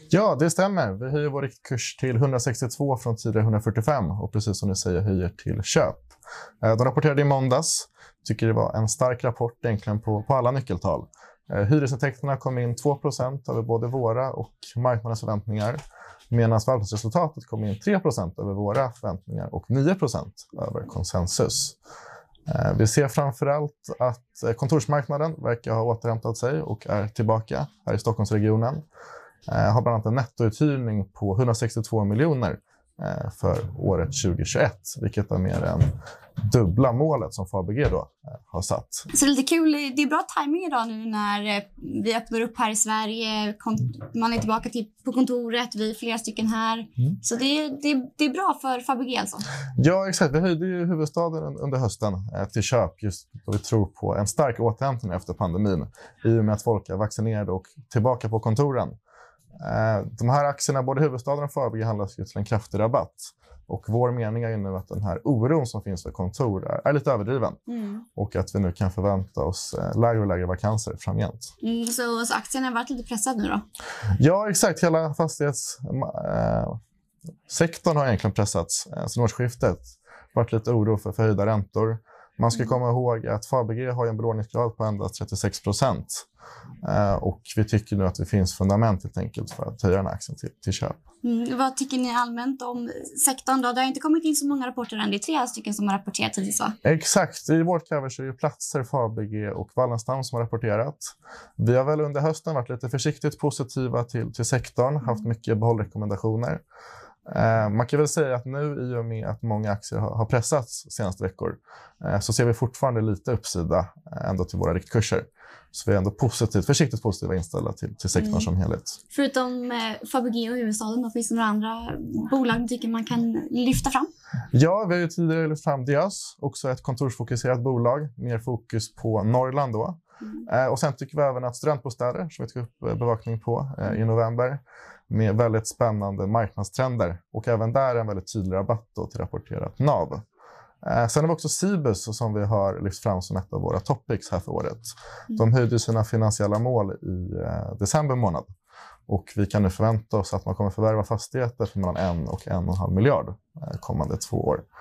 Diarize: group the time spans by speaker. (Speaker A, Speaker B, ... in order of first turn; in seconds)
Speaker A: 0.1-6.1, 6.6-15.8, 16.3-21.8, 22.5-28.8, 29.5-35.9, 36.5-39.1, 49.8-58.9, 59.6-67.6, 68.2-71.5, 74.2-76.8, 77.5-86.2, 86.8-91.0, 96.8-106.6, 107.3-119.0, 124.5-140.2, 140.8-148.5, 149.1-154.6
Speaker B: 39.1-49.5, 67.7-68.0, 71.6-73.6, 91.2-96.8, 118.2-118.5, 119.1-124.1